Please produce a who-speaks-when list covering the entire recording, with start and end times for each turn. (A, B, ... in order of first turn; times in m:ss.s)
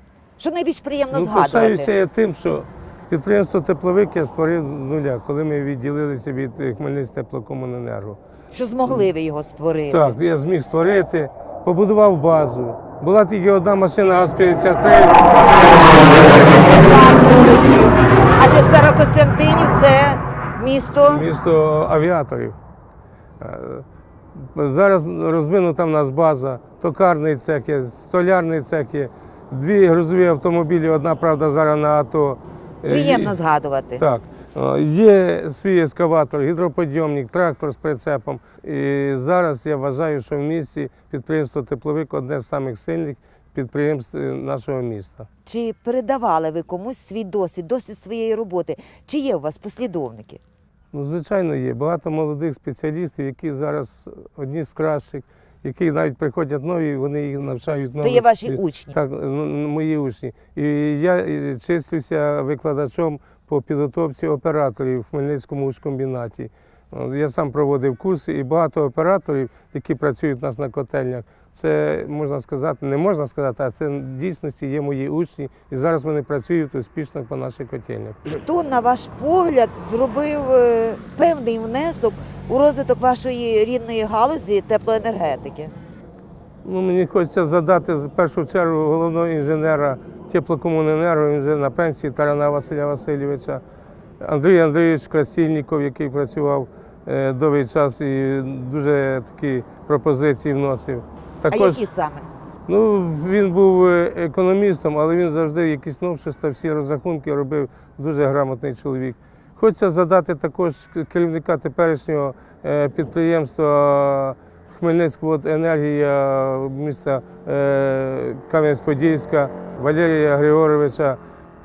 0:00.4-0:01.9 A
0:01.1-0:08.2 B
0:08.5-0:10.1 A
0:09.9-0:15.3 B
0:16.0-0:21.2 A
0:21.1-0:22.6 B
0:23.4-0:23.8 B
0:24.4-0:33.4 B
0:32.9-0:34.0 A
0:34.0-0:45.3 B
0:45.4-0:50.4 A
0:50.9-1:18.2 B
0:58.0-0:58.9 A
1:18.4-1:25.7 A
1:26.6-1:33.6 B
1:34.2-1:41.9 B
1:41.5-1:42.3 A
1:42.7-2:01.2 B